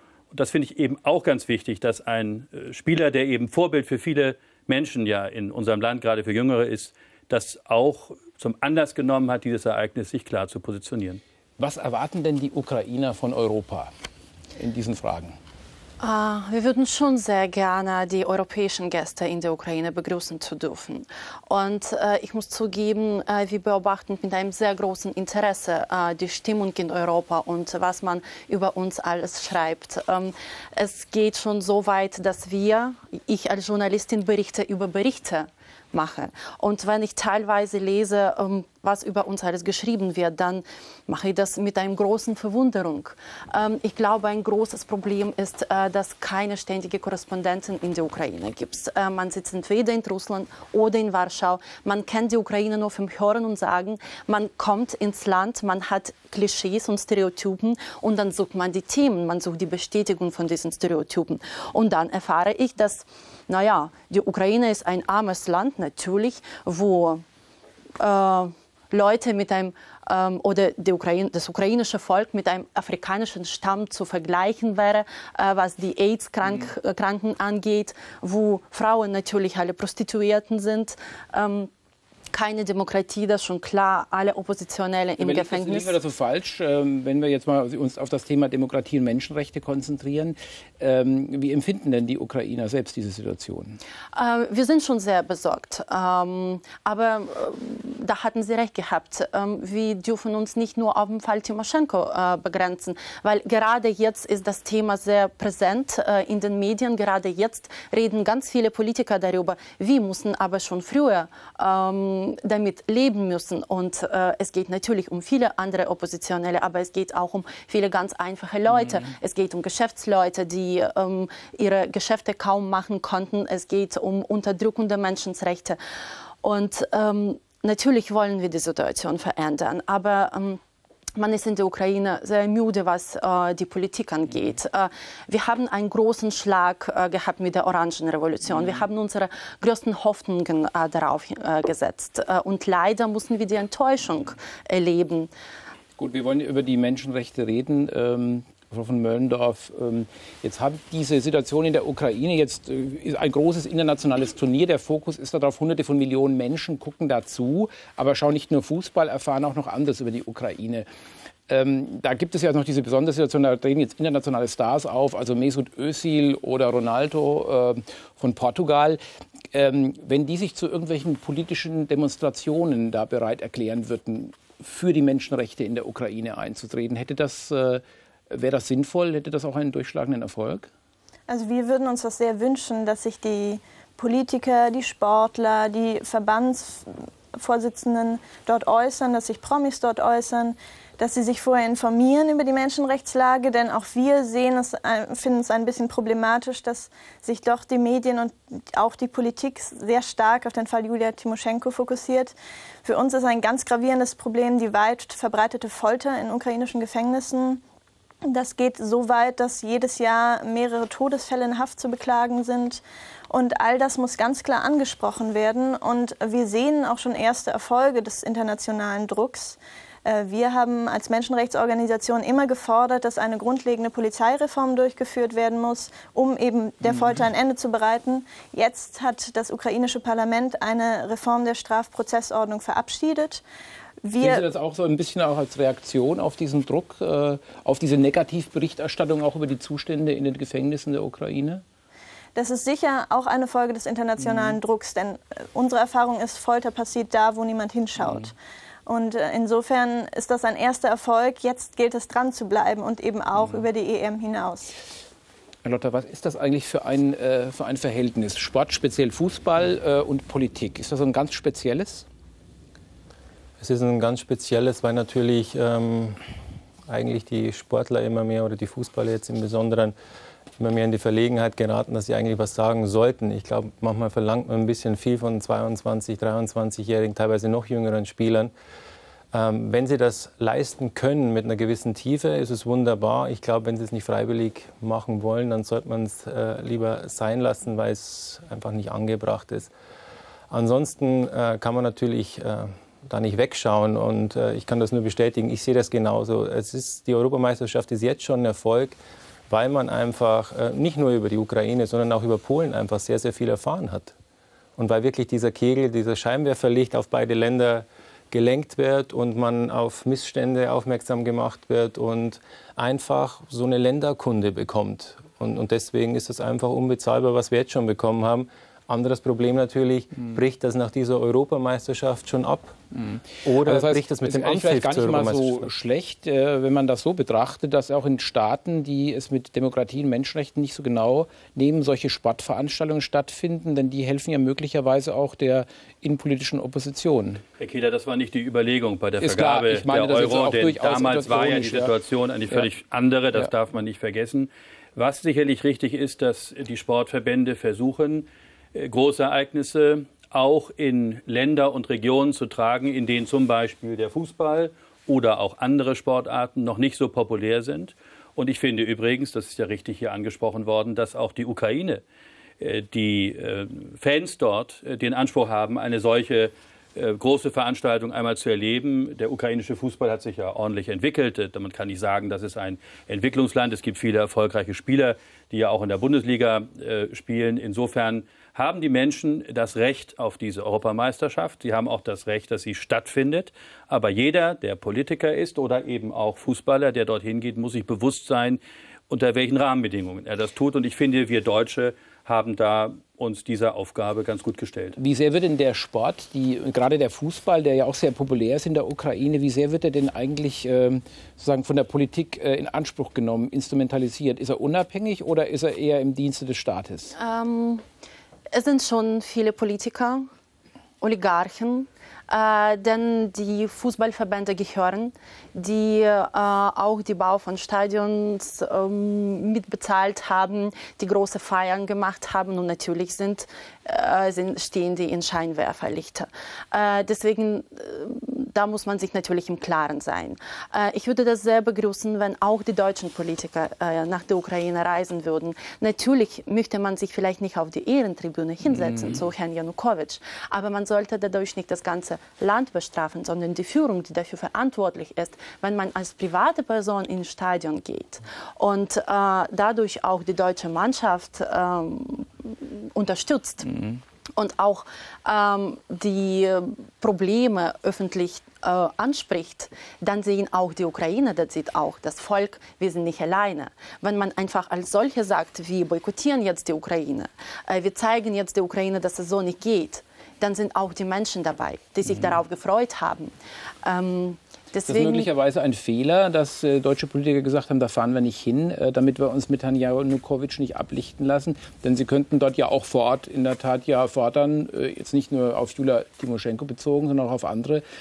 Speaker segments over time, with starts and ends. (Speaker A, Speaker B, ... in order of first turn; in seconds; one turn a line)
Speaker A: 0.3-11.2
Speaker B: 11.6-13.9
Speaker B: 14.6-15.4
Speaker C: 16.0-67.2
Speaker C: 68.0-81.7
Speaker C: 82.3-86.0
Speaker B: 85.2-93.8
Speaker C: 94.1-125.8
Speaker C: 126.4-130.6
Speaker C: 131.2-145.3
Speaker B: 146.0-160.9
Speaker B: 161.5-180.7
Speaker D: 181.3-202.3
Speaker D: 202.8-207.6
Speaker D: 208.3-233.4
Speaker D: 234.0-234.5
Speaker B: 234.2-241.6
Speaker D: 242.4-248.3
Speaker B: 244.2-244.6
Speaker D: 248.9-254.7
Speaker B: 255.6-262.1
Speaker E: 263.6-266.2
Speaker E: 266.9-269.9
Speaker E: 270.6-278.5
Speaker E: 279.3-289.7
Speaker E: 290.5-299.0
Speaker E: 299.5-304.1
Speaker E: 304.8-322.8
Speaker B: 323.1-337.4
Speaker E: 323.4-325.7
Speaker A: 337.6-362.0
Speaker B: 339.2-341.9
Speaker A: 362.6-394.9
Speaker B: 395.0-407.1
Speaker C: 407.1-407.8
Speaker C: 408.5-410.3
Speaker C: 411.0-475.3
Speaker B: 438.8-439.2
Speaker B: 474.9-487.9